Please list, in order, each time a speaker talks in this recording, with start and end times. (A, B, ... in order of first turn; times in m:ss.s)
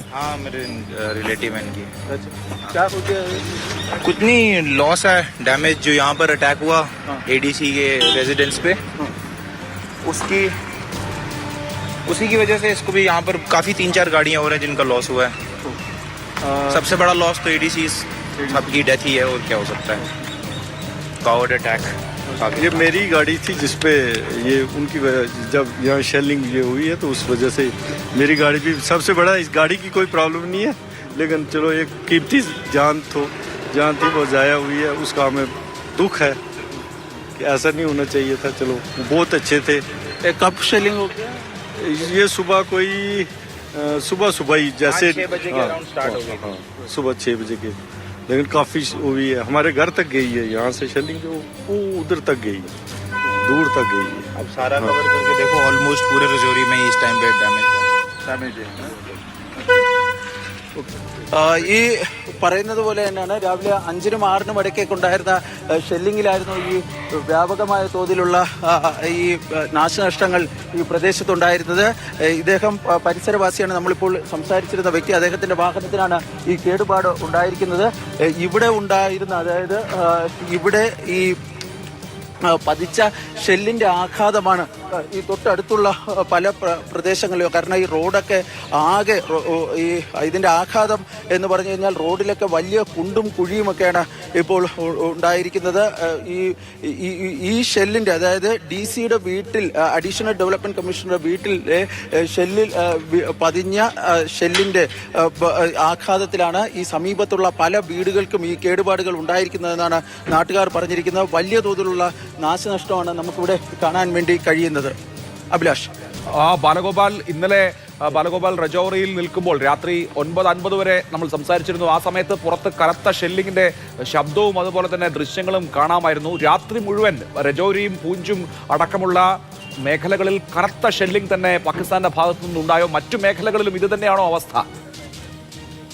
0:00.1-0:01.9 A
0:02.1-0:03.4 B
0:04.0-0:08.8 A
0:10.1-0:10.5 A
0:12.1-0:15.3 A
0:16.4-0:16.9 C
0:16.7-0:20.0 A
0:18.4-0:18.7 C
0:21.2-0:22.9 A
0:22.5-0:36.4 C
0:37.4-0:39.8 C
0:40.2-0:41.4 B
0:41.8-0:47.8 C
0:44.8-0:46.5 A
0:48.3-0:52.8 C
0:53.3-0:55.0 C
0:54.4-0:59.1 A
1:01.3-1:21.4 B
1:22.4-1:54.9 B
1:55.5-1:55.9 B
1:56.4-2:09.3 D
2:09.8-2:14.6 D